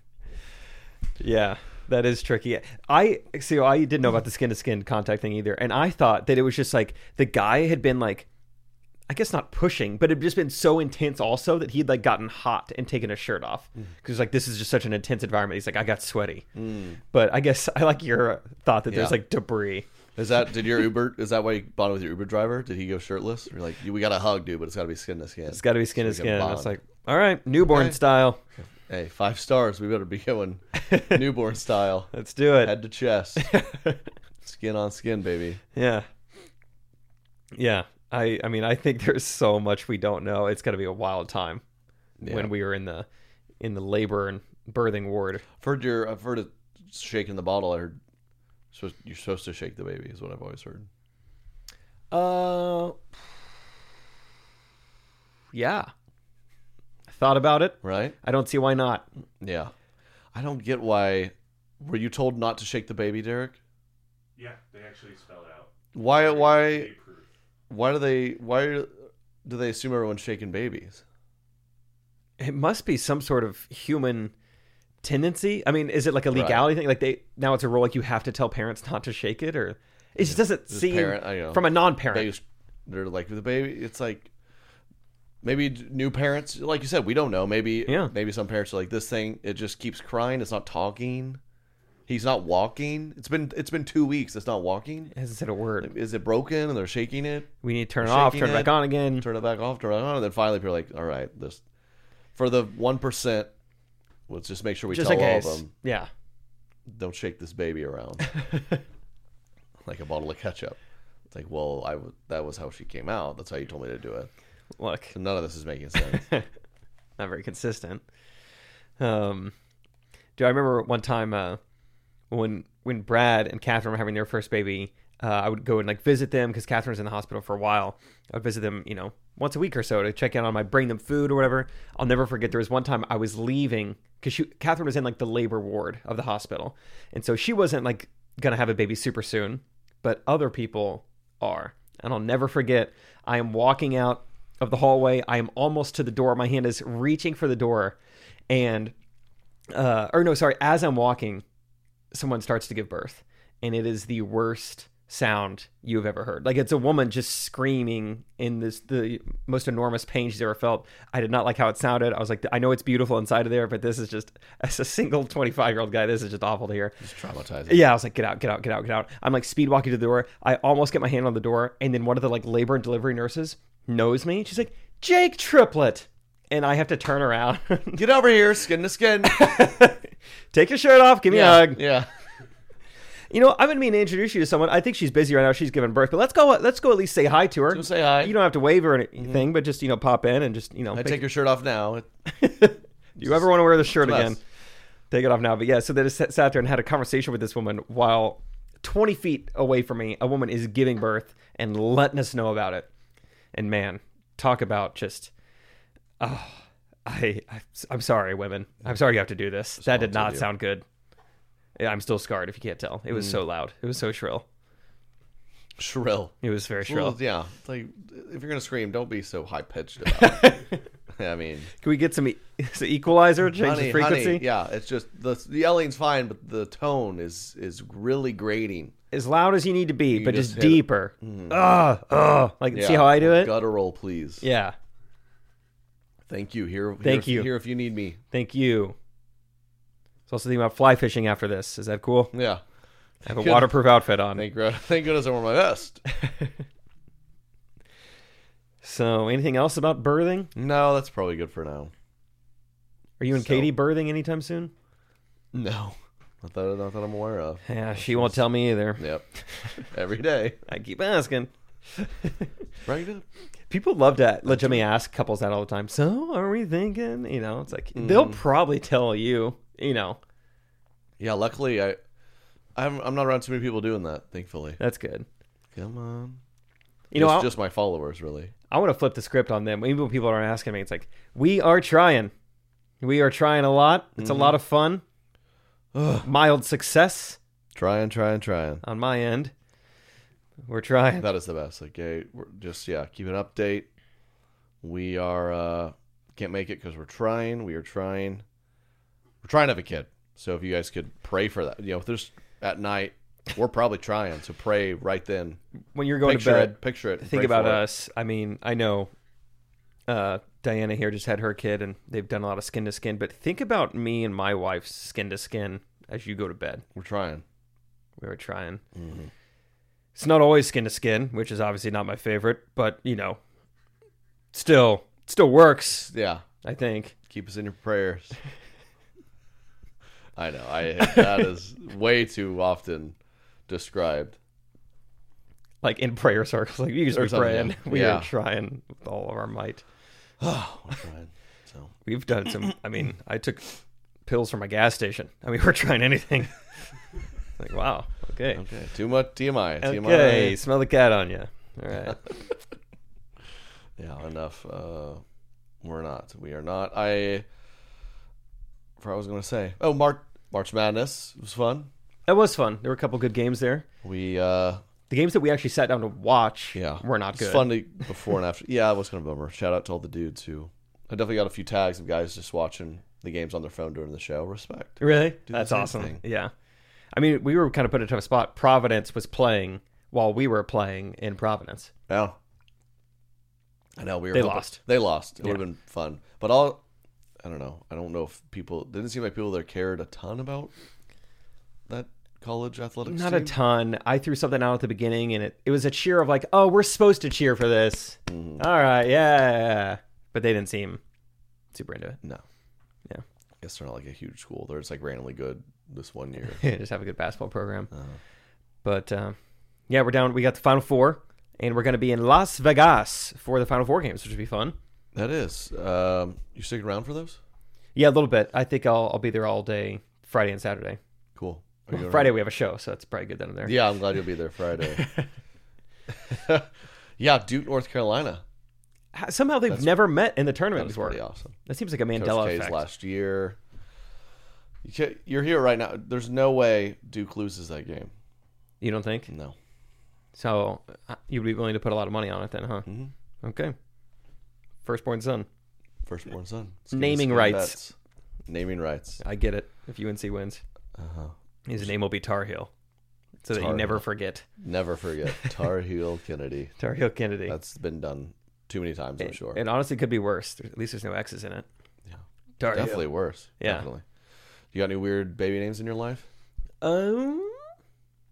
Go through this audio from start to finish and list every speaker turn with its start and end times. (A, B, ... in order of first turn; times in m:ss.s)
0:01.2-0:08.3 A
0:09.1-0:16.4 A
0:16.5-0:17.0 B
0:17.1-0:19.8 A
0:18.9-0:19.2 B
0:20.2-0:26.7 B
0:25.5-0:28.4 A
0:27.7-0:28.0 B
0:28.6-0:33.5 B
0:30.8-0:31.2 A
0:32.1-0:32.7 A
0:33.4-0:34.0 A
0:34.4-0:35.6 B
0:35.7-0:36.0 A
0:37.5-0:41.6 A
0:42.2-0:42.5 B
0:42.2-0:43.0 A
0:43.6-0:45.4 A
0:45.6-0:48.0 B
0:48.7-0:50.9 B
0:52.1-0:53.0 A
0:55.5-0:55.9 A
0:57.1-0:59.0 A
0:57.8-0:58.2 B
0:59.4-0:59.7 B
1:00.3-1:03.6 B
1:04.4-1:07.3 C
1:05.9-1:06.9 B
1:07.7-1:08.9 B
1:09.4-1:11.0 B
1:12.4-1:14.3 A
1:15.0-1:22.3 A
1:16.3-1:16.7 B
1:20.2-1:24.3 B
1:25.4-1:31.4 B
1:27.9-1:28.1 A
1:32.1-1:35.1 B
1:35.1-1:35.9 A
1:35.8-1:41.6 B
1:37.6-1:39.3 A
1:42.3-1:43.5 B
1:44.3-1:45.7 B
1:44.9-1:46.1 A
1:46.9-1:48.3 B
1:49.8-1:50.8 B
1:51.3-1:54.3 B
1:54.8-1:55.1 A
1:55.1-1:56.2 B
1:56.1-1:56.4 A
1:57.2-1:58.0 A
1:59.0-1:59.5 A
2:00.4-2:01.6 A
2:02.3-2:28.0 A
2:28.5-2:28.9 A
2:29.7-2:31.4 A
2:32.1-2:47.0 A
2:47.0-2:47.9 B
2:47.7-2:58.0 A
2:58.0-2:59.5 B
2:59.2-3:01.8 A
3:01.3-3:02.1 B
3:03.3-3:11.2 A
3:07.7-3:08.4 B
3:09.2-3:09.4 B
3:10.9-3:12.1 B
3:12.3-3:14.4 A
3:13.2-3:14.4 B
3:15.1-3:22.9 A
3:23.5-3:25.3 A
3:26.2-3:30.8 A
3:29.8-3:30.5 B
3:31.8-3:34.4 A
3:33.1-3:33.4 B
3:35.8-3:40.6 B
3:36.4-3:37.2 A
3:40.1-3:40.8 A
3:41.1-3:41.7 B
3:41.8-3:44.4 A
3:43.6-3:48.9 B
3:49.1-3:53.5 A
3:50.1-3:51.6 B
3:52.7-3:54.4 B
3:54.4-3:54.7 A
3:56.3-3:58.2 B
3:57.0-3:57.5 A
3:58.3-3:59.0 A
4:00.3-4:02.3 A
4:02.3-4:02.6 B
4:03.2-4:04.4 A
4:03.2-4:03.8 B
4:04.3-4:06.0 B
4:08.8-4:10.5 A
4:10.5-4:11.9 B
4:13.2-4:14.7 A
4:13.3-4:13.7 B
4:15.5-4:18.4 B
4:17.7-4:19.8 A
4:19.0-4:19.2 B
4:19.8-4:20.6 B
4:20.6-4:22.5 A
4:22.8-4:23.2 B
4:23.7-4:30.2 A
4:24.4-4:24.8 B
4:27.9-4:28.4 B
4:31.2-4:32.0 B
4:32.7-4:34.8 B
4:34.8-4:35.2 A
4:35.7-4:36.4 B
4:37.1-4:37.5 A
4:37.1-4:38.5 B
4:38.7-4:42.3 A
4:43.0-4:45.0 A
4:44.2-4:44.6 B
4:45.9-4:46.3 B
4:46.2-4:47.4 A
4:47.7-4:48.8 B
4:48.8-4:49.5 A
4:50.7-4:51.3 A
4:51.2-4:53.9 B
4:54.8-4:58.4 B
4:59.4-5:05.6 B
5:05.9-5:09.1 A
5:06.2-5:07.8 B
5:10.1-5:16.8 A
5:16.9-5:17.4 B
5:18.2-5:18.8 A
5:18.9-5:19.3 B
5:20.1-5:23.4 A
5:24.5-5:26.1 A
5:26.0-5:26.4 B
5:26.6-5:27.1 A
5:27.3-5:28.4 B
5:30.4-5:33.2 B
5:33.7-5:34.4 B
5:35.8-5:39.8 A
5:37.1-5:38.3 B
5:40.4-5:41.9 B
5:42.0-5:43.7 A
5:44.2-5:46.6 A
5:47.6-5:48.6 A
5:48.5-5:50.6 B
5:49.8-5:52.3 A
5:54.0-5:55.2 B
5:55.8-5:57.4 B
5:59.0-6:01.9 B
6:02.3-6:03.8 A
6:04.0-6:04.8 B
6:05.1-6:07.7 A
6:06.7-6:16.2 B
6:15.0-6:16.5 A
6:17.1-6:21.9 A
6:22.1-6:22.4 B
6:24.0-6:26.8 B
6:24.3-6:24.8 A
6:27.4-6:30.7 B
6:31.9-6:33.6 B
6:33.0-6:41.0 A
6:38.3-6:38.6 B
6:41.7-6:42.2 A
6:43.6-6:46.6 B
6:46.5-6:47.9 A
6:47.9-6:48.2 B
6:48.8-6:49.4 A
6:49.9-6:54.8 A
6:55.1-6:57.4 B
6:57.9-7:01.0 A
7:01.4-7:02.3 B
7:01.9-7:03.8 A
7:03.6-7:05.0 B
7:04.9-7:05.3 A
7:06.2-7:08.4 B
7:09.1-7:12.8 A
7:09.7-7:10.0 B
7:10.7-7:11.6 B
7:12.1-7:13.6 B
7:14.8-7:18.1 B
7:18.8-7:19.3 A
7:19.3-7:19.6 B
7:20.3-7:22.9 A
7:22.9-7:23.1 B
7:23.4-7:23.7 A
7:24.8-7:25.5 A
7:26.0-7:27.9 B
7:26.9-7:27.8 A
7:28.5-7:29.2 B
7:29.2-7:30.6 A
7:31.0-7:31.9 B
7:31.6-7:32.7 A
7:33.4-7:34.0 B
7:33.4-7:34.5 A
7:34.6-7:36.7 B
7:36.8-7:37.6 A
7:37.5-7:39.6 B
7:39.2-7:41.6 A
7:42.1-7:44.0 B
7:42.6-7:43.9 A
7:44.7-7:46.3 B
7:46.8-7:47.6 A